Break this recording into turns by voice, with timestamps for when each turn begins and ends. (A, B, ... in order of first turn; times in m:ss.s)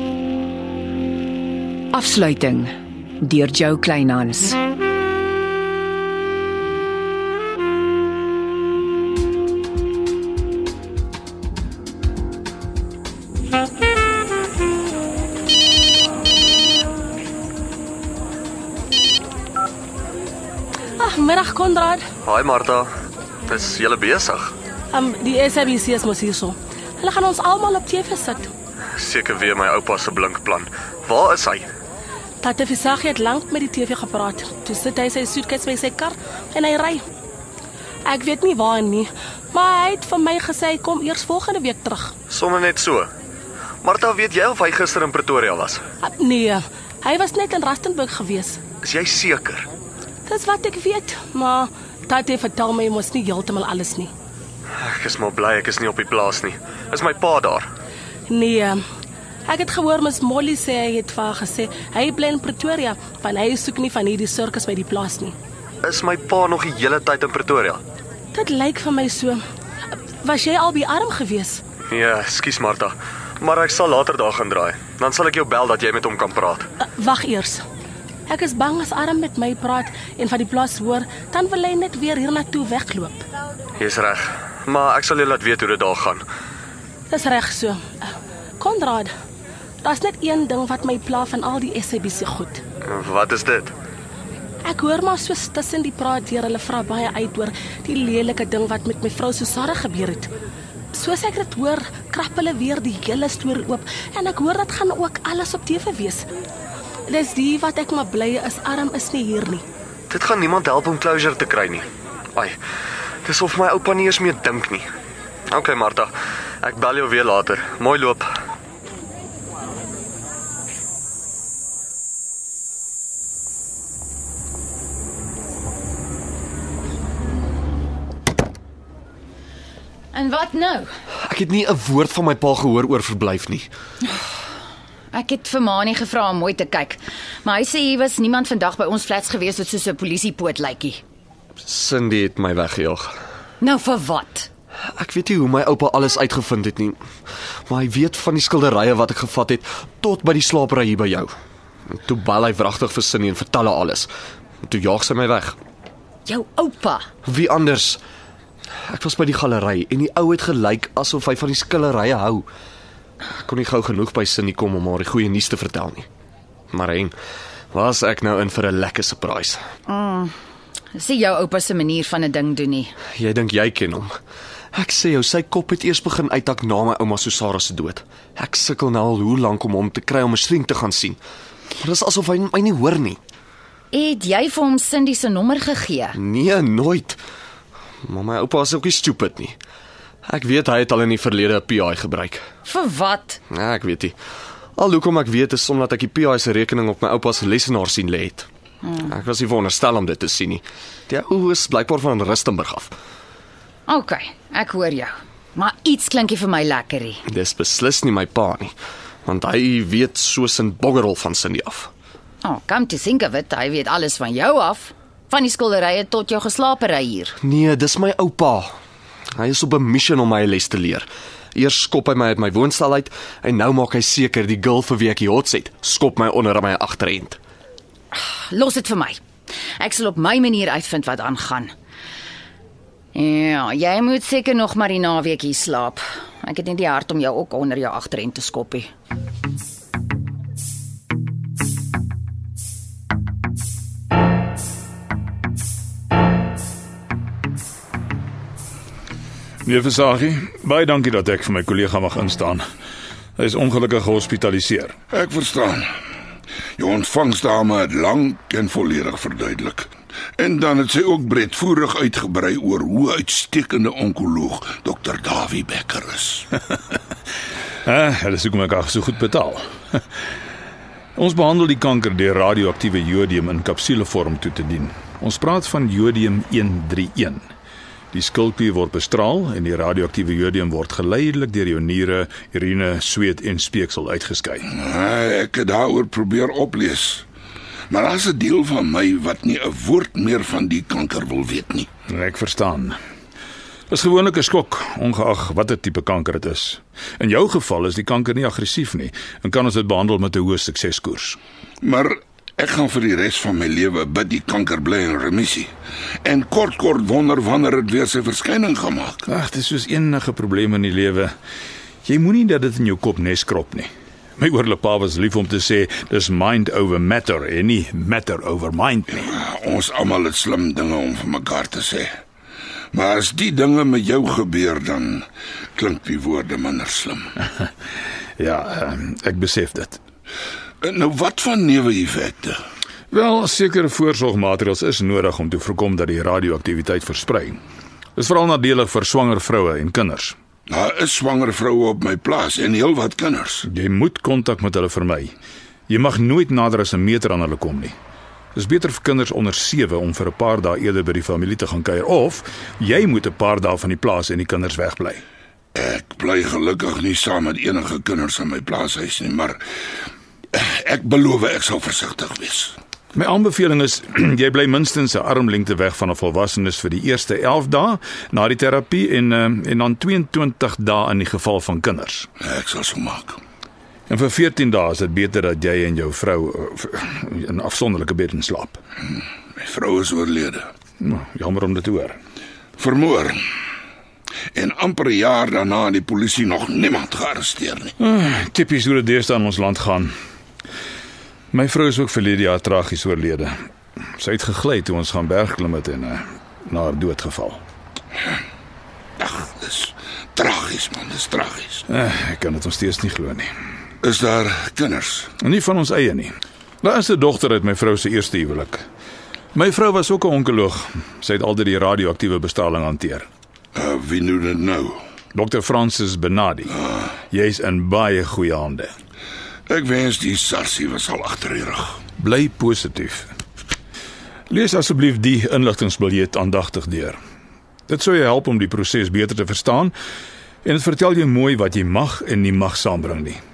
0:01.9-0:04.6 A
0:21.0-0:22.1 B
0:22.2-0:22.9 C
0:23.5-0:24.6 C
0:24.9-0:28.5 B
0:28.9-0:31.7 C
0:32.4-0:37.0 B
0:38.0-0:42.1 B
0:42.3-0:43.1 C
0:43.8-0:45.8 C
0:46.0-0:48.6 B
0:48.8-0:49.7 C
0:50.2-0:54.1 B
0:54.8-0:57.7 C
0:58.3-0:58.8 B
0:59.5-1:05.3 B
1:05.8-1:07.8 C
1:08.3-1:09.4 B
1:10.2-1:11.6 B
1:11.9-1:16.7 C
1:16.8-1:17.6 B
1:18.3-1:23.2 B
1:23.8-1:26.2 C
1:27.1-1:29.1 B
1:29.8-1:32.6 B
1:32.8-1:33.7 C
1:34.6-1:40.3 B
1:40.9-1:46.2 B
1:47.1-1:49.6 B
1:50.1-1:52.6 C
1:53.2-1:54.9 C
1:55.5-1:58.3 C
2:10.1-2:10.9 D
2:11.2-2:13.7 C
2:15.1-2:21.0 D
2:21.6-2:23.1 C
2:23.6-2:24.5 D
2:24.9-2:27.0 C
2:27.7-2:31.3 C
2:31.9-2:34.1 C
2:34.6-2:35.6 C
2:36.2-2:37.1 D
2:37.2-2:38.0 C
2:38.8-2:42.5 C
2:43.4-2:46.1 C
2:46.7-2:47.1 C
2:47.7-2:49.6 C
2:49.9-2:50.3 D
2:50.9-2:52.9 D
2:53.1-2:54.1 C
2:54.7-3:01.2 C
3:01.8-3:03.2 C
3:03.9-3:06.2 D
3:06.2-3:07.2 C
3:08.0-3:09.6 C
3:10.2-3:12.4 C
3:12.6-3:13.4 D
3:13.5-3:14.2 C
3:14.8-3:18.5 C
3:19.1-3:23.0 C
3:23.9-3:27.2 D
3:27.3-3:28.7 C
3:29.2-3:31.9 C
3:32.4-3:37.4 D
3:37.4-3:38.7 C
3:39.4-3:47.4 C
3:48.1-3:49.2 D
3:49.8-3:51.7 D
3:53.1-3:58.9 D
4:09.6-4:12.6 E
4:13.4-4:14.9 E
4:15.1-4:15.9 F
4:16.8-4:26.5 F
4:27.8-4:30.0 E
4:31.2-4:37.4 E
4:38.1-4:44.7 E
4:44.7-4:47.2 F
4:47.9-4:51.9 F
4:52.1-4:53.0 E
4:53.9-5:01.4 E
5:01.8-5:05.7 F
5:06.2-5:09.2 F
5:09.3-5:11.3 E
5:12.0-5:19.3 E
5:19.1-5:22.1 F
5:22.9-5:27.3 F
5:28.4-5:30.0 E
5:30.8-5:32.6 F
5:33.1-5:37.6 E
5:38.2-5:40.4 E
5:40.7-5:43.6 F
5:43.6-5:45.3 E
5:45.9-5:47.9 E
5:48.5-5:55.2 E
5:55.7-5:59.6 F
6:00.5-6:02.8 F
6:03.1-6:12.3 E
6:12.4-6:13.4 F
6:14.1-6:18.8 E
6:19.6-6:20.7 F
6:21.0-6:22.2 E
6:22.8-6:23.4 F
6:24.5-6:27.9 F
6:28.0-6:30.1 E
6:31.5-6:33.5 E
6:34.2-6:37.6 E
6:39.2-6:41.8 F
6:41.9-6:43.5 E
6:44.0-6:45.3 F
6:45.4-6:48.8 E
6:49.5-6:53.3 E
6:53.7-6:55.0 F
6:55.3-6:56.8 E
6:57.3-6:58.9 E
6:59.7-7:02.0 F
7:02.2-7:03.3 E
7:04.5-7:07.2 E
7:07.9-7:09.9 E
7:10.6-7:13.4 E